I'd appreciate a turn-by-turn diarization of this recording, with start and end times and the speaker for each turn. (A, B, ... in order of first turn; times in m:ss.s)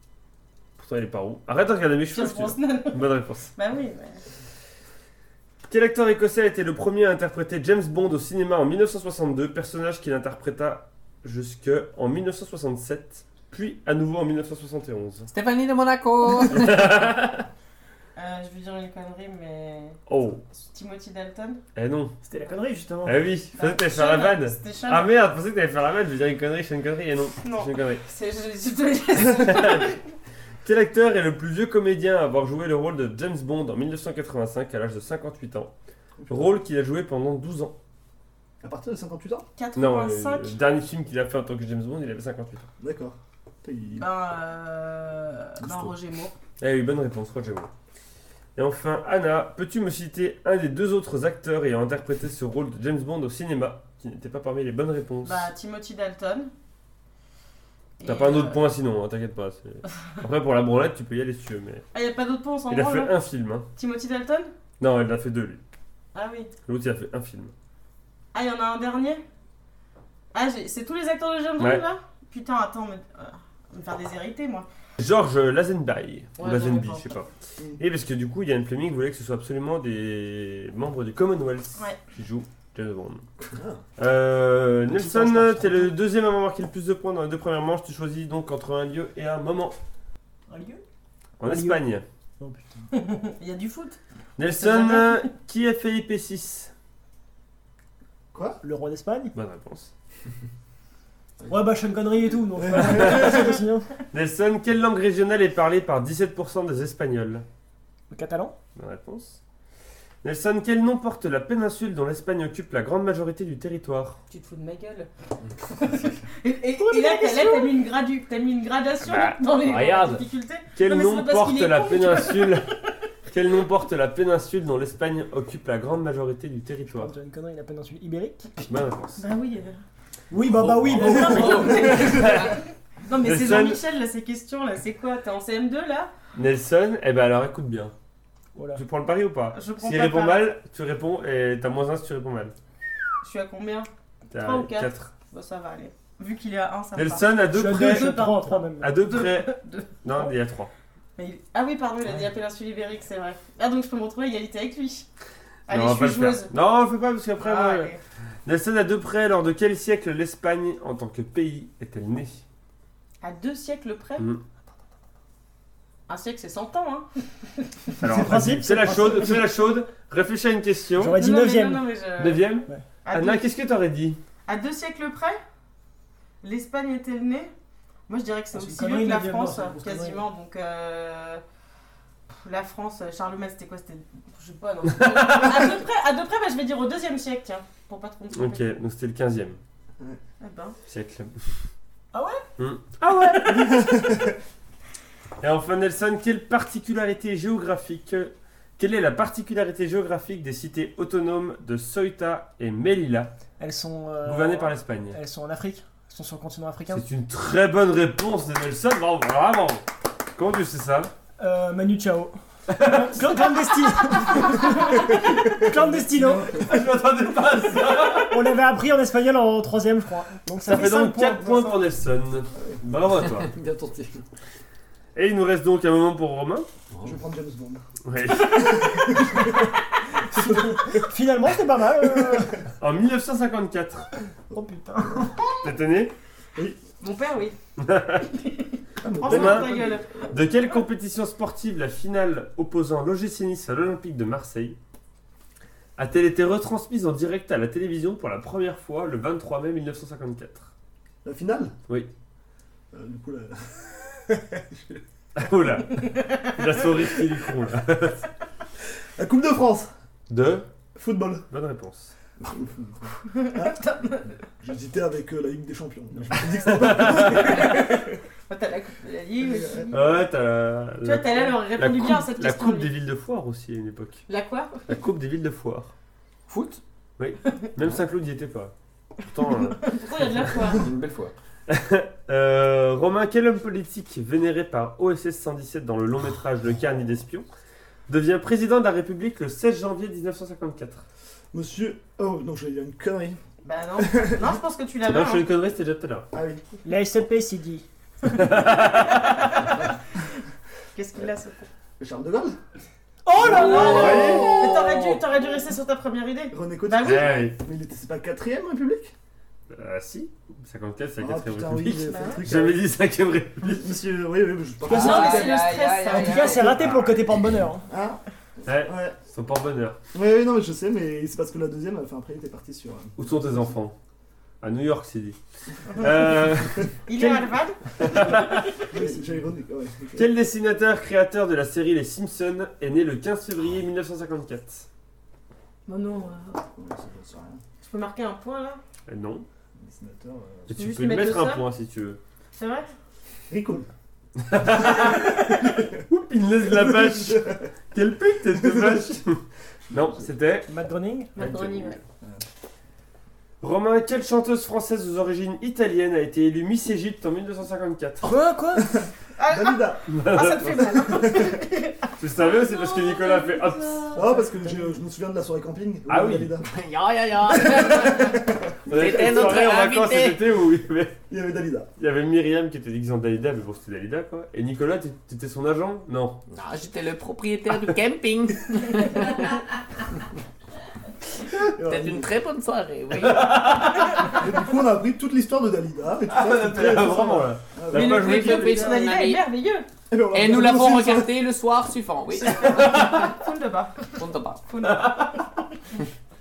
0:00.8-0:03.5 A
0:02.1-0:04.2 B
0:05.6-0:15.3 A
0:15.3-0:16.8 C
0:16.4-0:17.4 A
0:18.2-0:20.0 B
0:20.1-0:20.4 A
0:20.6-0:21.6 B
0:21.7-0:22.2 A
0:22.2-0:23.2 D
0:23.0-0:28.0 A
0:23.6-0:25.1 B
0:27.4-0:30.0 B
0:29.2-0:29.9 A
0:30.6-0:35.7 A
0:36.2-0:36.6 E
0:36.3-0:37.7 A
0:38.6-0:39.4 E
0:39.6-0:40.6 B
0:39.8-0:42.7 A
0:42.8-0:44.1 E
0:44.0-0:46.3 B
0:46.6-0:47.7 A
0:48.5-0:55.5 A
0:55.2-0:56.5 B
0:58.0-0:58.6 B
0:58.0-1:01.8 A
1:01.9-1:03.2 B
1:02.7-1:03.7 A
1:03.7-1:04.5 B
1:04.8-1:05.6 A
1:06.1-1:06.5 B
1:06.6-1:07.5 A
1:08.3-1:09.2 B
1:10.3-1:14.7 B
1:11.6-1:11.8 A
1:15.0-1:23.2 A
1:16.4-1:17.2 B
1:23.5-1:23.8 E
1:24.0-1:29.7 A
1:24.9-1:25.9 D
1:30.5-1:30.8 D
1:31.4-1:32.0 A
1:31.4-1:31.8 D
1:32.4-1:32.6 D
1:32.9-1:35.3 B
1:34.4-1:36.7 A
1:38.3-1:38.6 E
1:38.6-1:39.3 D
1:39.3-1:39.9 A
1:41.4-1:43.9 D
1:42.6-1:43.5 E
1:43.0-1:43.5 A
1:44.1-1:47.4 A
1:48.1-1:48.5 D
1:48.8-1:49.4 A
1:50.2-1:54.2 A
1:54.3-1:55.1 B
1:55.7-2:02.6 B
1:56.8-1:57.8 D
1:59.0-2:00.2 A
2:00.7-2:02.7 A
2:03.2-2:07.1 A
2:06.9-2:08.6 D
2:08.6-2:09.2 A
2:09.2-2:09.8 B
2:10.3-2:12.2 D
2:10.6-2:12.6 A
2:10.7-2:12.5 C
2:10.9-2:16.1 B
2:11.0-2:12.0 E
2:13.2-2:13.8 A
2:16.3-2:17.9 A
2:18.6-2:18.8 D
2:18.7-2:22.5 A
2:19.5-2:20.5 B
2:23.2-2:30.3 B
2:24.3-2:25.1 A
2:26.9-2:28.2 A
2:27.5-2:29.0 D
2:28.8-2:30.7 A
2:31.2-2:35.1 B
2:35.7-2:36.5 B
2:35.7-2:37.9 A
2:37.4-2:38.0 B
2:38.4-2:42.4 A
2:43.2-2:44.3 B
2:46.1-2:47.1 B
2:48.0-2:51.2 A
2:48.0-2:49.4 D
2:51.0-2:51.9 D
2:51.1-2:53.4 B
2:52.2-2:54.2 A
2:54.4-2:55.4 B
2:56.4-2:57.5 B
2:58.1-3:01.4 B
2:58.5-3:00.2 D
3:02.3-3:08.6 B
3:04.9-3:05.8 A
3:08.3-3:09.6 A
3:10.4-3:10.8 B
3:10.9-3:11.5 A
3:12.1-3:12.4 D
3:12.6-3:14.1 A
3:13.4-3:14.3 E
3:15.4-3:23.3 A
3:23.6-3:27.0 D
3:24.2-3:25.2 A
3:26.9-3:29.8 A
3:30.3-3:31.1 A
3:31.4-3:36.6 D
3:32.7-3:33.5 A
3:36.3-3:38.5 A
3:38.2-3:41.7 D
3:40.6-3:43.5 A
3:43.2-3:44.2 C
3:45.1-3:46.7 A
3:47.0-3:47.8 E
3:48.0-3:49.5 A
3:48.4-3:49.4 E
3:50.3-3:52.7 D
3:50.3-3:51.0 E
3:52.8-3:54.1 A
3:54.5-3:55.6 D
3:55.6-3:56.1 A
3:57.0-3:57.6 B
3:57.8-3:58.2 A
3:58.3-4:00.2 B
3:59.0-4:00.4 E
3:59.2-4:04.8 A
4:06.0-4:10.7 A
4:11.2-4:11.7 E
4:12.9-4:15.0 E
4:15.3-4:18.2 A
4:19.2-4:19.9 E
4:20.3-4:20.6 A
4:20.9-4:21.4 E
4:21.5-4:22.1 A
4:22.4-4:23.8 E
4:23.3-4:24.4 B
4:24.6-4:28.1 E
4:26.5-4:27.8 A
4:28.5-4:30.2 B
4:29.9-4:34.2 A
4:31.0-4:32.9 B
4:34.3-4:34.8 B
4:34.9-4:35.9 A
4:36.5-4:36.8 C
4:37.2-4:40.0 A
4:39.8-4:40.8 B
4:40.6-4:41.3 C
4:41.7-4:47.5 A
4:48.1-4:51.0 A
4:51.5-4:53.4 E
4:53.6-4:55.5 B
4:54.0-4:54.4 E
4:55.1-4:56.3 A
4:56.3-4:56.6 E
4:56.8-4:57.8 D
4:58.2-4:59.7 A
5:00.9-5:01.7 B
5:02.0-5:02.6 E
5:03.2-5:04.5 D
5:03.3-5:07.5 B
5:03.5-5:04.5 E
5:03.6-5:04.7 A
5:03.8-5:05.2 C
5:06.5-5:09.1 E
5:07.0-5:07.6 A
5:09.7-5:13.9 A
5:11.2-5:12.8 E
5:12.1-5:12.4 B
5:13.6-5:15.6 E
5:14.9-5:17.9 D
5:14.9-5:16.7 B
5:14.9-5:16.8 C
5:16.7-5:17.4 A
5:17.9-5:19.2 E
5:18.6-5:20.0 A
5:20.1-5:23.6 E
5:23.2-5:23.9 A
5:24.6-5:25.4 A
5:25.9-5:28.9 A
5:27.1-5:28.2 B
5:28.9-5:30.3 E
5:30.2-5:34.9 A
5:35.8-5:36.6 B
5:36.7-5:37.6 E
5:37.8-5:38.8 B
5:39.1-5:39.4 A
5:39.8-5:40.7 E
5:40.7-5:42.2 A
5:40.7-5:41.6 B
5:42.6-5:42.9 B
5:43.5-5:43.9 E
5:44.4-5:50.7 A
5:45.2-5:45.9 E
5:46.7-5:47.6 E
5:48.6-5:49.0 E
5:49.9-5:50.2 E
5:50.7-5:51.4 D
5:51.3-5:52.0 B
5:51.4-5:52.0 A
5:53.6-5:58.3 A
5:58.2-5:59.0 D
5:59.4-6:04.1 B
5:59.5-6:00.0 E
6:00.1-6:01.0 A
6:01.1-6:01.5 E
6:02.2-6:04.2 A
6:04.1-6:06.7 E
6:06.1-6:06.5 A
6:06.6-6:10.5 C
6:07.5-6:09.6 E
6:08.9-6:11.2 A
6:11.3-6:11.9 E
6:12.0-6:16.4 A
6:16.5-6:19.6 C
6:21.7-6:22.3 E
6:21.8-6:23.6 C
6:23.2-6:24.4 A
6:24.2-6:28.3 E
6:26.3-6:29.0 A
6:27.9-6:29.4 C
6:27.9-6:29.9 B
6:30.1-6:31.3 E
6:30.3-6:33.2 C
6:32.4-6:35.3 B
6:32.5-6:33.3 A
6:34.1-6:34.6 C
6:34.8-6:35.4 A